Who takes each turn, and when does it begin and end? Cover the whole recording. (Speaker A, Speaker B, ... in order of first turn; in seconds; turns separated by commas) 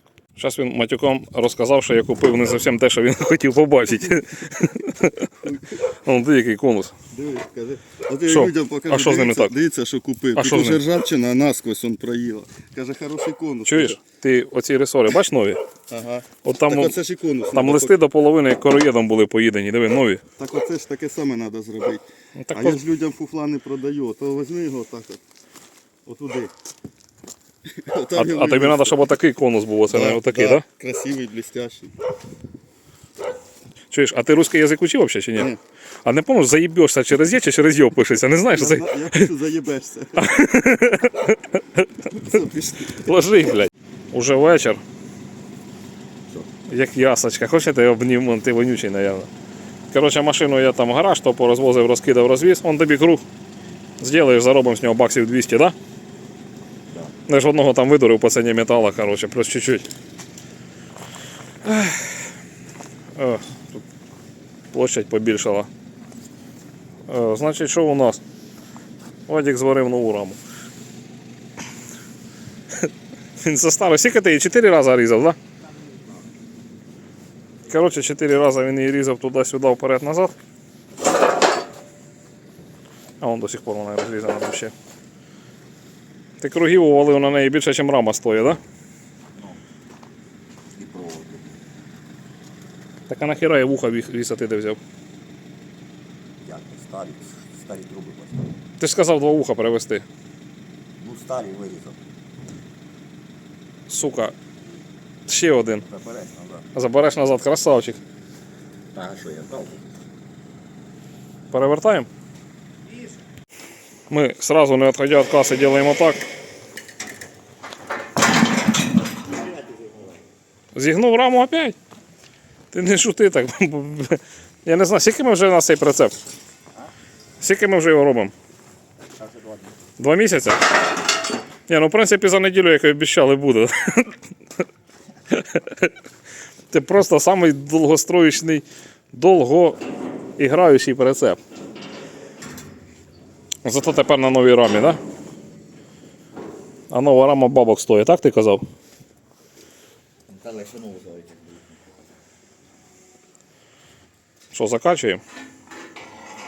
Speaker A: 0.3-6.9, Speaker B: 5.4-5.7, Speaker B: 7.1-14.0, Speaker A: 8.2-9.5, Speaker A: 10.3-10.8, Speaker A: 13.7-15.6, Speaker B: 15.9-18.0, Speaker A: 16.4-16.9, Speaker A: 17.5-20.2, Speaker B: 20.4-25.2, Speaker A: 22.4-22.8, Speaker B: 26.1-26.5, Speaker B: 27.7-29.0, Speaker A: 28.1-30.6, Speaker B: 29.9-31.9, Speaker A: 33.9-39.2, Speaker B: 38.5-40.3, Speaker A: 40.2-42.1, Speaker B: 42.1-43.0, Speaker A: 42.9-44.8, Speaker A: 46.7-49.3, Speaker A: 49.9-53.2, Speaker A: 54.0-55.7, Speaker A: 57.3-59.9, Speaker A: 61.6-62.2, Speaker A: 63.1-63.8, Speaker A: 64.7-65.7, Speaker A: 67.1-68.2, Speaker A: 69.3-70.4, Speaker A: 73.4-75.4, Speaker A: 77.7-80.3, Speaker A: 83.2-84.7, Speaker A: 86.4-88.6, Speaker C: 89.3-89.6, Speaker C: 90.7-91.6, Speaker A: 93.1-94.8, Speaker C: 96.4-98.5, Speaker A: 98.8-100.0, Speaker C: 101.0-102.0, Speaker A: 103.9-104.3, Speaker A: 105.3-105.8, Speaker C: 105.9-106.6, Speaker A: 106.7-108.0, Speaker C: 108.9-109.8, Speaker A: 111.5-112.1, Speaker A: 114.1-116.2, Speaker A: 120.7-121.8, Speaker A: 122.7-126.1, Speaker A: 127.4-128.3, Speaker C: 129.2-129.7, Speaker A: 130.0-130.6, Speaker A: 131.7-134.2, Speaker A: 135.3-135.9, Speaker A: 136.7-139.8, Speaker A: 140.4-141.4, Speaker A: 143.6-145.0, Speaker A: 146.9-148.6, Speaker C: 150.3-151.6, Speaker A: 154.5-155.2